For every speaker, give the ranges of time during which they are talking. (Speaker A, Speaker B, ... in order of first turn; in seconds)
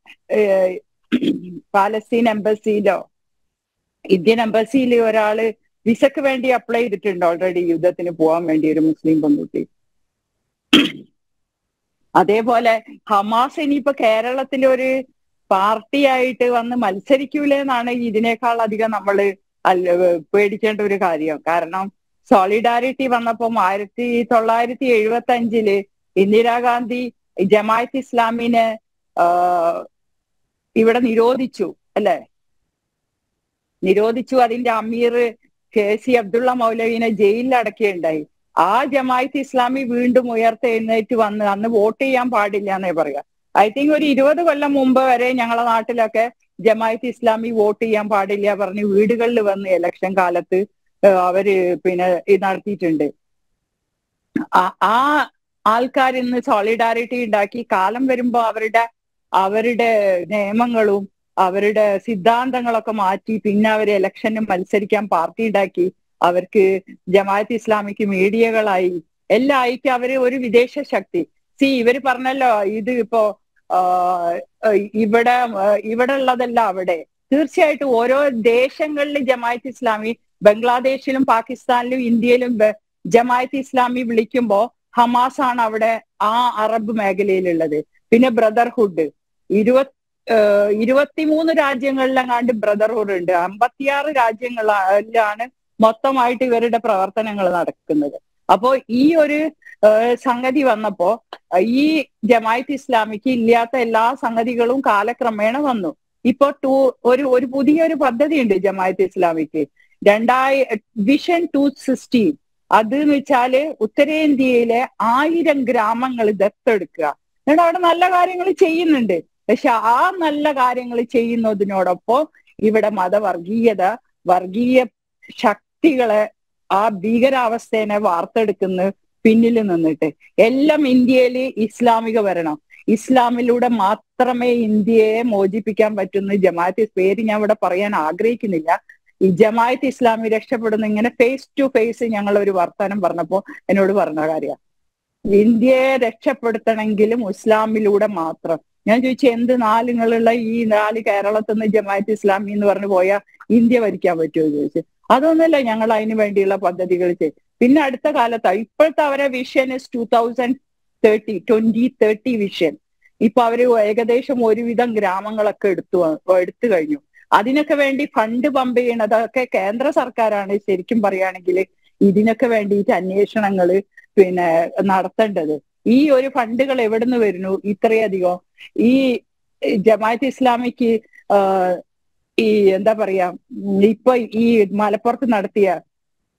Speaker A: 0.3-3.0, 4.2-9.7, 10.7-11.0, 12.2-14.9, 15.5-28.6, 29.2-29.8, 30.8-32.2, 33.8-35.2, 35.7-50.6, 51.2-53.1, 54.5-58.8, 59.4-124.9, 125.4-126.2, 126.8-138.8, 139.3-144.6, 145.3-179.0, 179.8-181.8, 182.4-185.7